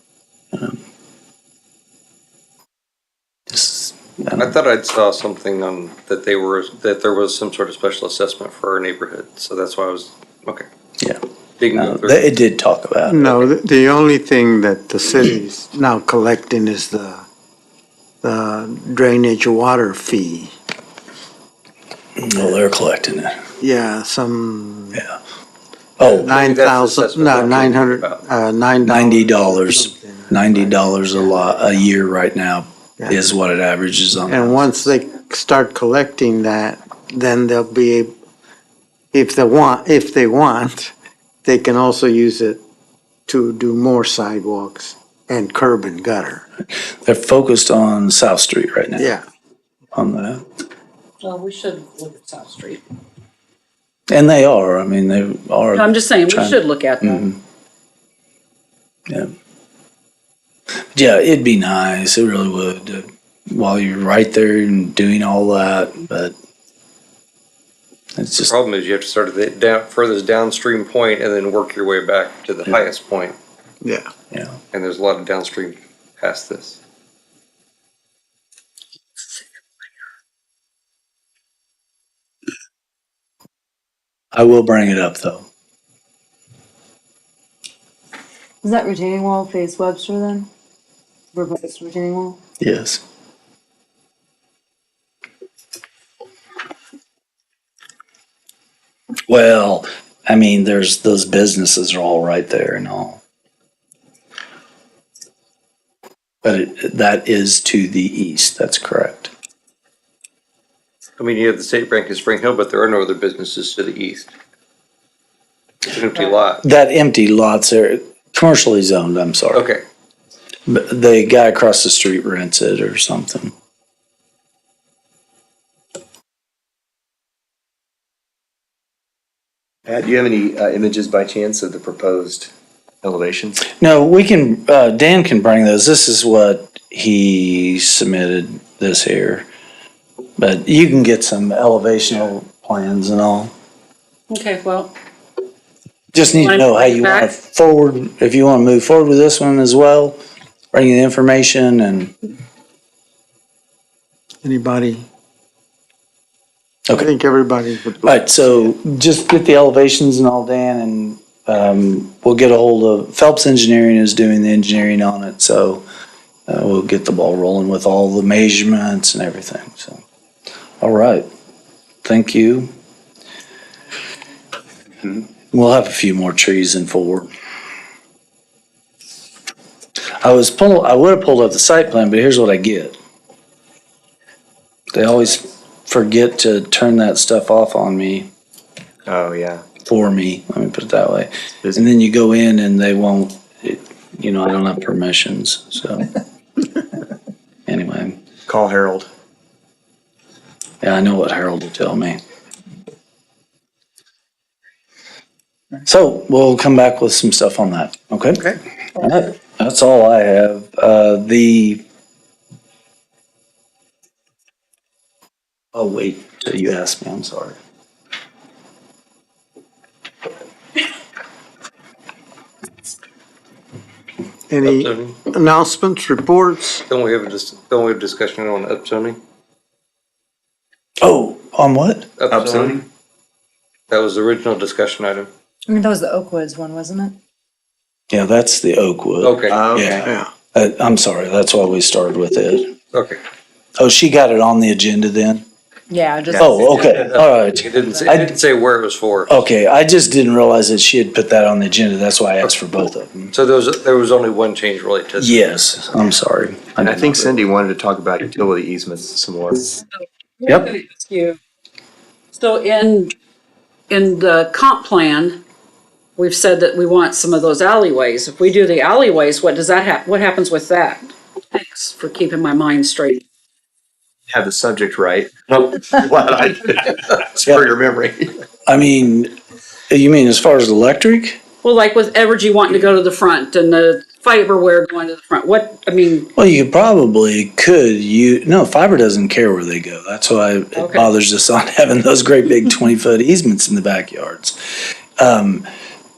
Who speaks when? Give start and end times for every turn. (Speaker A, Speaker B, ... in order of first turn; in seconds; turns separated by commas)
Speaker A: 0.5-0.8, Speaker A: 3.5-4.5, Speaker B: 4.4-10.7, Speaker B: 11.6-12.3, Speaker A: 11.7-13.3, Speaker C: 13.1-17.2, Speaker C: 18.2-20.5, Speaker A: 22.2-23.4, Speaker C: 23.6-25.1, Speaker A: 26.0-26.3, Speaker B: 26.0-28.2, Speaker C: 26.1-31.8, Speaker A: 28.9-34.9, Speaker C: 34.3-38.1, Speaker C: 39.1-42.6, Speaker C: 43.3-46.5, Speaker A: 47.0-49.1, Speaker C: 49.0-49.2, Speaker A: 49.9-50.4, Speaker D: 51.2-52.8, Speaker A: 54.1-57.4, Speaker D: 55.7-57.3, Speaker A: 60.9-66.3, Speaker A: 68.2-68.5, Speaker B: 68.4-73.4, Speaker C: 73.8-74.1, Speaker B: 74.7-76.8, Speaker A: 84.3-85.5, Speaker E: 88.6-90.5, Speaker E: 91.3-92.4, Speaker A: 92.6-93.0, Speaker A: 99.3-103.2, Speaker A: 106.4-109.3, Speaker B: 111.2-114.3, Speaker B: 115.9-116.6, Speaker A: 116.6-119.6, Speaker B: 119.5-119.8, Speaker A: 120.7-123.5, Speaker F: 129.9-132.5, Speaker F: 133.0-133.6, Speaker A: 133.7-139.5, Speaker A: 140.4-143.5, Speaker D: 144.3-144.9, Speaker A: 146.1-150.2, Speaker D: 146.2-147.3, Speaker A: 150.7-152.1, Speaker C: 154.4-155.1, Speaker C: 156.9-158.7, Speaker A: 158.0-165.8, Speaker A: 166.5-170.0, Speaker A: 170.8-171.3, Speaker A: 172.0-172.7, Speaker A: 175.5-177.3, Speaker A: 180.2-183.0, Speaker A: 184.9-188.3, Speaker F: 189.1-189.6, Speaker A: 189.8-196.1, Speaker A: 197.7-198.2, Speaker F: 198.5-199.1, Speaker A: 200.8-202.2, Speaker A: 205.9-211.8, Speaker A: 215.7-217.6, Speaker C: 224.5-226.8, Speaker B: 224.6-225.2, Speaker B: 226.9-229.2, Speaker A: 231.0-232.1, Speaker B: 232.2-232.8, Speaker F: 232.3-232.8, Speaker B: 233.9-235.3, Speaker E: 235.7-237.2, Speaker A: 238.1-242.8, Speaker B: 239.2-239.6, Speaker F: 239.5-240.1, Speaker B: 242.9-243.2, Speaker A: 243.8-245.4, Speaker E: 245.9-246.9, Speaker F: 246.3-246.6, Speaker A: 246.4-248.3, Speaker B: 246.8-249.5, Speaker E: 247.9-248.1, Speaker A: 249.3-253.3, Speaker B: 253.3-255.4, Speaker A: 255.2-257.5, Speaker F: 256.8-259.8, Speaker D: 259.9-261.4, Speaker D: 262.3-263.1, Speaker D: 263.9-265.4, Speaker D: 266.2-273.2, Speaker F: 274.3-278.4, Speaker A: 278.7-279.3, Speaker A: 279.9-281.4, Speaker D: 281.6-286.3, Speaker A: 286.4-294.6, Speaker D: 290.8-291.1, Speaker A: 295.2-295.7